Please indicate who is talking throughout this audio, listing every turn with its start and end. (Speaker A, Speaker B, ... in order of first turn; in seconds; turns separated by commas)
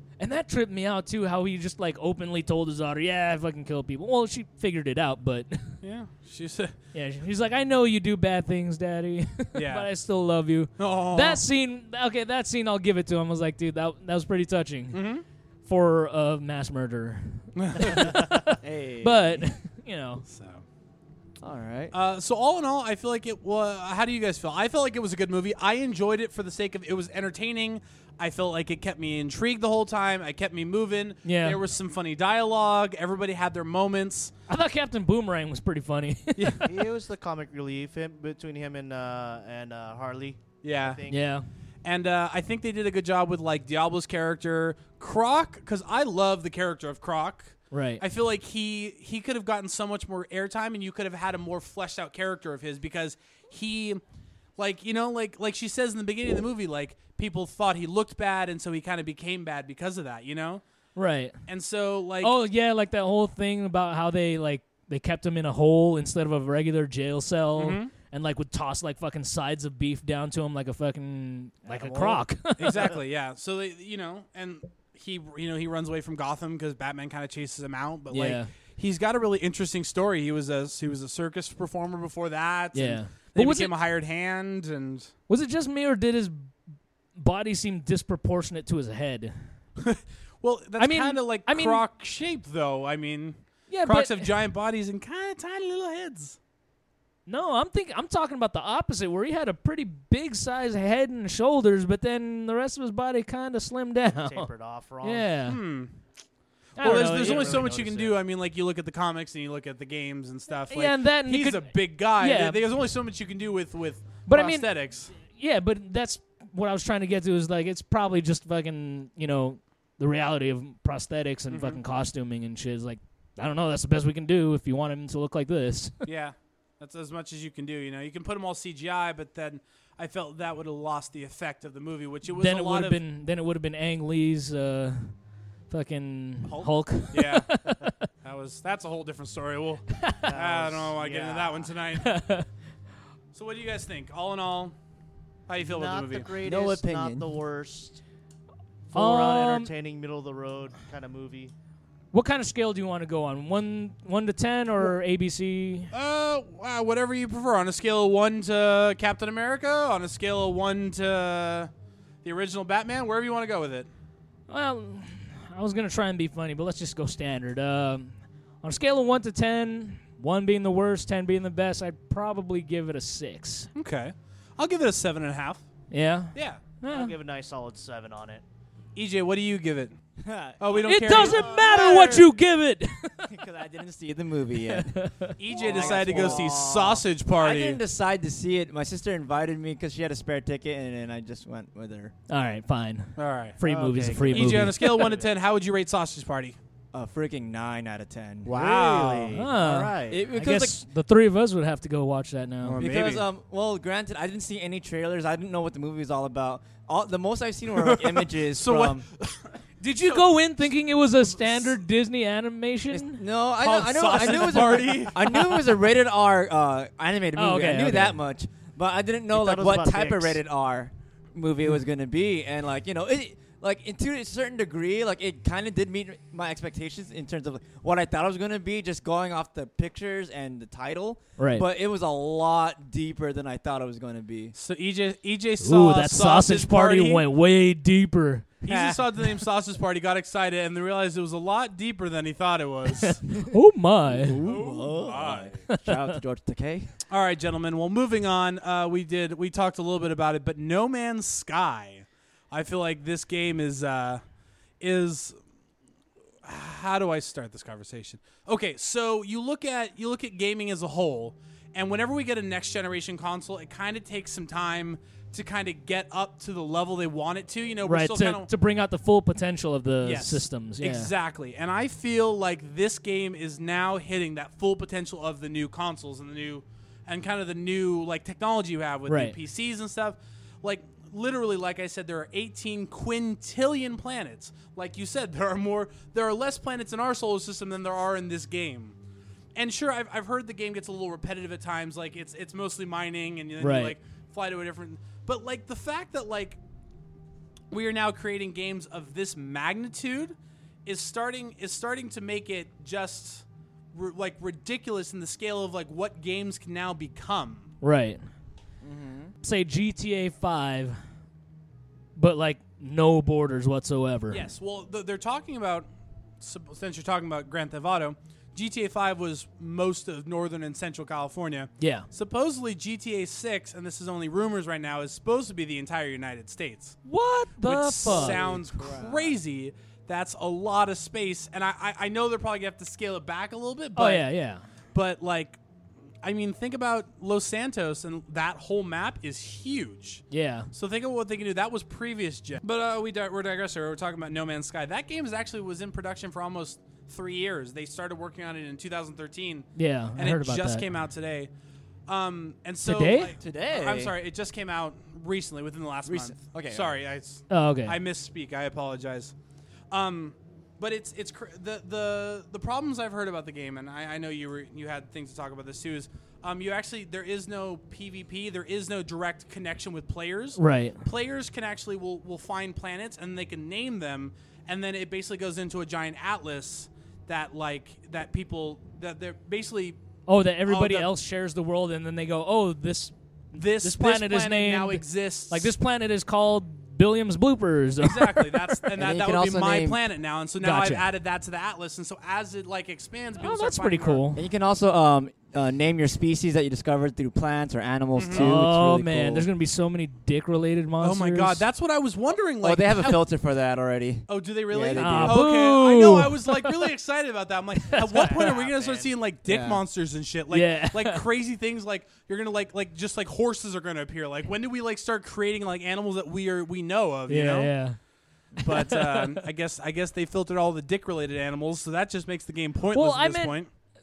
Speaker A: 0.2-5.8, Speaker B: 5.8-6.7, Speaker A: 6.9-15.0, Speaker B: 9.6-9.9, Speaker B: 10.8-11.4, Speaker B: 14.9-15.2, Speaker A: 15.7-20.2, Speaker B: 17.6-18.2, Speaker C: 18.6-19.5, Speaker B: 20.3-20.6, Speaker C: 21.4-21.9, Speaker B: 21.9-34.3, Speaker A: 31.2-31.6, Speaker A: 34.5-36.7, Speaker B: 36.4-36.7, Speaker D: 36.6-41.2, Speaker B: 40.6-41.0, Speaker A: 41.1-41.5, Speaker B: 41.8-54.0, Speaker A: 47.7-48.0, Speaker B: 54.6-60.6, Speaker A: 61.0-61.4, Speaker B: 61.5-62.3, Speaker A: 62.2-72.9, Speaker B: 67.6-67.9, Speaker D: 71.6-72.9, Speaker B: 72.6-85.1, Speaker A: 78.1-78.5, Speaker A: 82.7-83.7, Speaker A: 85.3-86.5, Speaker A: 87.2-89.3, Speaker B: 89.8-96.4, Speaker A: 90.8-91.8, Speaker A: 93.7-94.3, Speaker A: 97.3-104.5, Speaker D: 104.2-105.3, Speaker A: 105.0-105.6, Speaker B: 105.5-106.0, Speaker A: 106.8-107.7, Speaker B: 106.8-115.1, Speaker D: 106.8-108.2, Speaker A: 110.7-112.6, Speaker A: 114.3-126.0, Speaker B: 121.5-121.8, Speaker B: 126.1-133.0, Speaker A: 132.3-135.1, Speaker A: 135.7-138.0, Speaker B: 136.4-137.6, Speaker B: 138.2-142.2, Speaker A: 140.0-140.2, Speaker D: 140.3-141.7, Speaker A: 142.0-142.5, Speaker B: 143.3-144.8, Speaker B: 145.5-146.3, Speaker D: 145.6-148.0, Speaker C: 146.4-147.3, Speaker D: 148.9-151.5, Speaker A: 148.9-149.7, Speaker A: 152.1-155.9, Speaker B: 155.9-161.7, Speaker B: 162.2-163.9, Speaker A: 164.5-173.7, Speaker B: 173.8-175.7, Speaker A: 175.9-177.2, Speaker B: 176.3-176.6, Speaker D: 176.9-178.4, Speaker B: 179.0-180.0, Speaker C: 180.2-181.9, Speaker B: 180.6-181.5, Speaker A: 180.8-183.3, Speaker D: 181.1-182.3, Speaker C: 183.2-186.8, Speaker A: 184.6-185.4, Speaker B: 185.4-187.8, Speaker D: 185.5-187.0, Speaker C: 187.4-192.1, Speaker A: 192.3-195.2, Speaker B: 193.2-193.6, Speaker D: 193.6-195.3, Speaker B: 194.3-196.6, Speaker C: 196.9-198.6, Speaker B: 198.4-199.4, Speaker D: 198.5-200.2, Speaker A: 199.3-202.8, Speaker C: 200.1-200.8, Speaker B: 202.6-203.3, Speaker C: 202.8-209.1, Speaker B: 207.8-210.3, Speaker A: 209.8-213.2, Speaker B: 211.4-211.7, Speaker C: 212.9-234.6, Speaker B: 213.6-215.5, Speaker A: 217.4-218.2, Speaker D: 219.3-220.4, Speaker A: 231.4-231.7, Speaker B: 234.6-237.2, Speaker A: 235.6-238.6, Speaker B: 238.6-243.3, Speaker C: 238.7-239.0, Speaker A: 243.0-244.4, Speaker C: 244.1-246.9, Speaker B: 244.4-245.6, Speaker A: 245.7-246.2, Speaker B: 247.1-254.2, Speaker B: 254.8-255.4, Speaker B: 256.4-268.5, Speaker A: 267.8-271.1, Speaker B: 270.0-289.0, Speaker A: 279.1-279.4, Speaker B: 289.6-296.6, Speaker A: 293.6-294.0, Speaker B: 297.7-300.3, Speaker B: 300.9-307.7, Speaker A: 307.8-308.3, Speaker C: 308.8-309.3, Speaker A: 309.4-311.0, Speaker A: 312.2-314.4, Speaker B: 314.3-315.9, Speaker B: 316.4-327.0, Speaker A: 321.8-322.1, Speaker A: 327.1-328.4, Speaker B: 327.6-334.3, Speaker C: 328.1-329.4, Speaker A: 334.0-334.7, Speaker B: 334.9-335.6, Speaker B: 336.2-351.5, Speaker A: 340.3-340.7, Speaker A: 349.8-350.9, Speaker B: 352.1-359.3, Speaker A: 352.8-353.4, Speaker C: 353.4-354.1, Speaker C: 356.1-357.0, Speaker A: 357.5-358.0, Speaker B: 359.9-380.0, Speaker A: 370.6-371.0, Speaker A: 380.3-388.8, Speaker B: 380.7-381.1, Speaker B: 383.5-385.7, Speaker B: 388.0-394.2, Speaker C: 388.9-390.0, Speaker A: 390.6-391.1, Speaker A: 393.4-394.4, Speaker C: 394.4-399.5, Speaker B: 398.1-398.6, Speaker A: 398.3-401.6, Speaker B: 401.0-403.2, Speaker C: 402.6-405.4, Speaker B: 404.3-417.8, Speaker A: 404.9-406.8, Speaker A: 407.9-408.4, Speaker D: 407.9-409.1, Speaker C: 409.5-409.8, Speaker A: 410.5-411.2, Speaker A: 417.3-418.0, Speaker B: 418.6-423.7, Speaker A: 418.6-419.4, Speaker A: 422.9-423.6